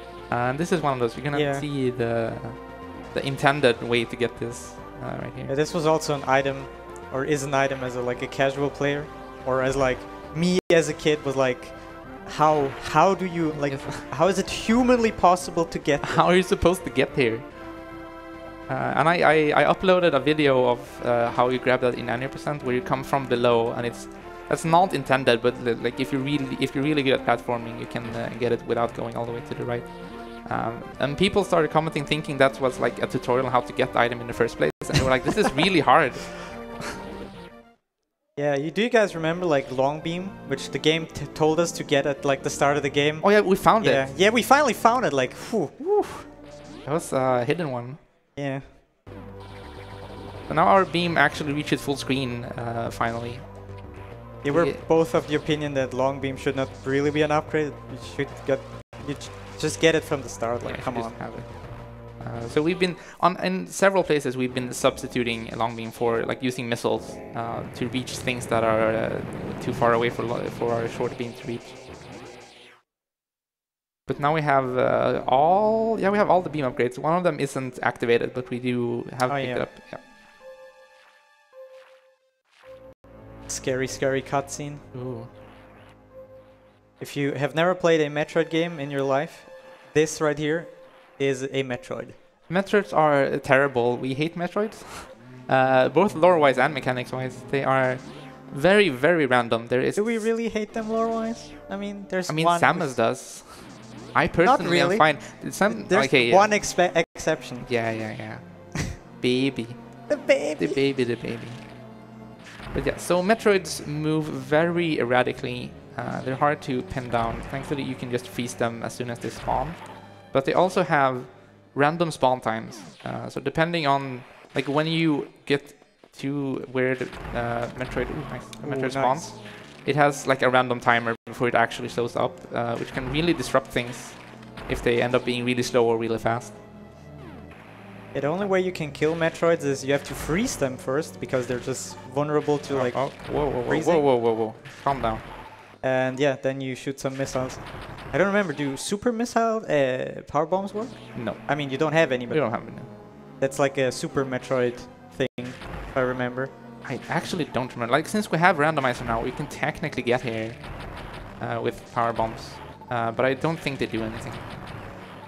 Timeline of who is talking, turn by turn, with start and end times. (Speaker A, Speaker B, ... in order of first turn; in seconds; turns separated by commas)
Speaker A: 0.3-5.5, Speaker B: 1.3-1.7, Speaker B: 5.5-16.3, Speaker A: 13.7-14.0, Speaker A: 16.0-17.8, Speaker A: 18.7-36.8, Speaker B: 38.4-45.9, Speaker A: 43.2-44.1, Speaker A: 45.8-48.0, Speaker B: 48.4-48.7, Speaker A: 50.5-53.9, Speaker B: 54.4-61.2, Speaker A: 54.5-54.8, Speaker A: 60.6-71.8, Speaker A: 74.1-80.0, Speaker B: 79.3-79.7, Speaker B: 83.5-84.8, Speaker A: 84.9-85.3, Speaker B: 87.0-92.2, Speaker A: 92.5-100.3, Speaker B: 100.0-103.0, Speaker A: 102.3-106.7, Speaker B: 104.4-107.8, Speaker A: 107.6-111.9, Speaker B: 110.1-110.8, Speaker A: 112.7-136.6, Speaker B: 128.6-129.3, Speaker B: 138.1-144.1, Speaker A: 142.7-145.2, Speaker B: 145.8-156.5, Speaker A: 151.1-152.9, Speaker A: 156.8-164.8